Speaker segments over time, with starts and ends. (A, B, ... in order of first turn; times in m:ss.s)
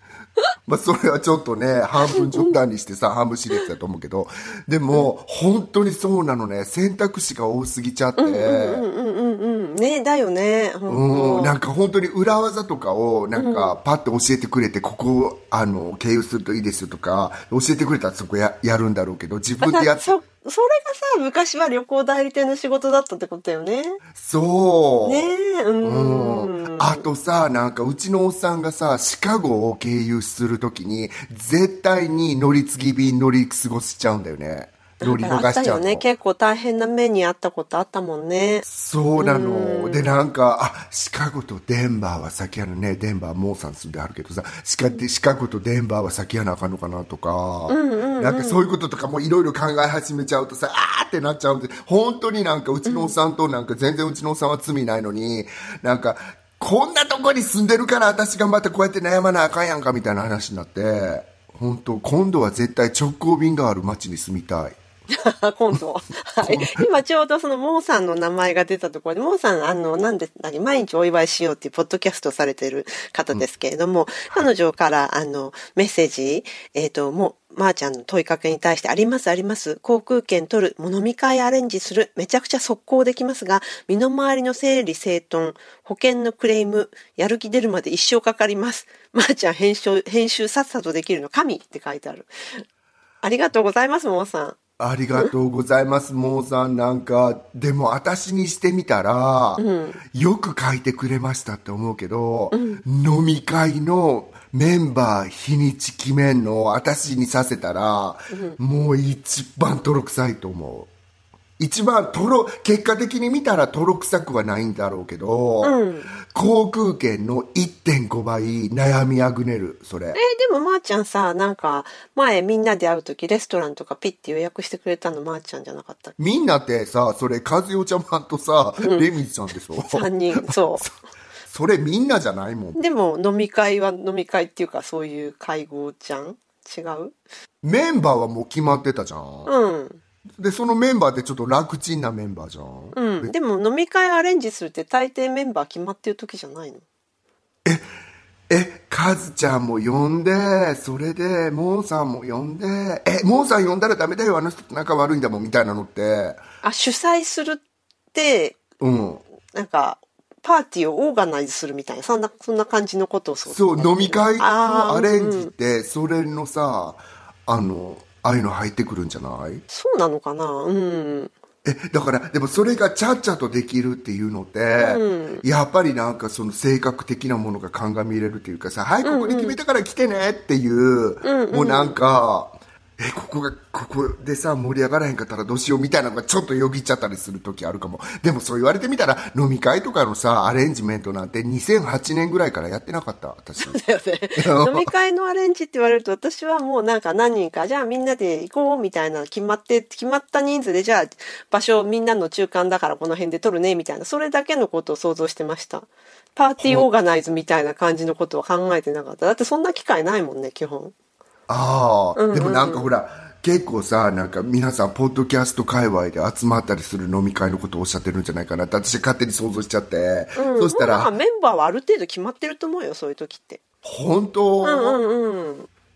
0:00.7-0:08.9 A
0:02.0-0:02.6 B
0:08.2-0:11.6 B
0:10.9-0:20.1 A
0:13.4-0:13.8 B
0:19.6-0:24.0 B
0:24.1-0:25.3 A
0:25.0-0:27.1 B
0:25.8-0:36.0 A
0:35.0-0:38.7 B
0:38.7-1:04.8 A
0:39.2-0:40.1 B
0:47.7-0:48.6 B
0:52.8-0:53.2 B
1:05.1-1:32.6 B
1:06.4-1:06.9 A
1:33.2-1:34.6 B
1:34.8-1:50.9 A
1:39.6-1:40.0 B
1:42.5-1:42.8 B
1:48.3-1:48.6 B
1:51.6-2:00.2 A
1:55.6-1:56.1 B
2:00.2-2:06.2 B
2:06.2-2:10.9 A
2:08.8-2:09.1 B
2:09.8-2:10.9 B
2:11.5-2:12.8 A
2:12.8-2:17.2 B
2:17.6-2:19.5 A
2:19.5-2:20.0 B
2:20.4-2:23.3 A
2:23.0-2:26.8 B
2:28.5-2:36.4 A
2:36.6-2:37.6 B
2:38.1-2:38.6 B
2:38.8-2:39.2 A
2:39.5-2:45.5 B
2:43.5-2:49.6 A
2:49.7-2:51.3 B
2:51.6-3:13.8 A
2:54.8-2:55.4 B
2:59.0-2:59.6 B
3:01.2-3:02.0 B
3:13.6-3:30.9 B
3:14.4-3:14.9 A
3:26.6-3:26.9 A
3:31.5-3:41.1 A
3:32.2-3:32.9 B
3:40.4-3:43.6 B
3:43.8-3:45.0 A
3:44.6-3:45.7 B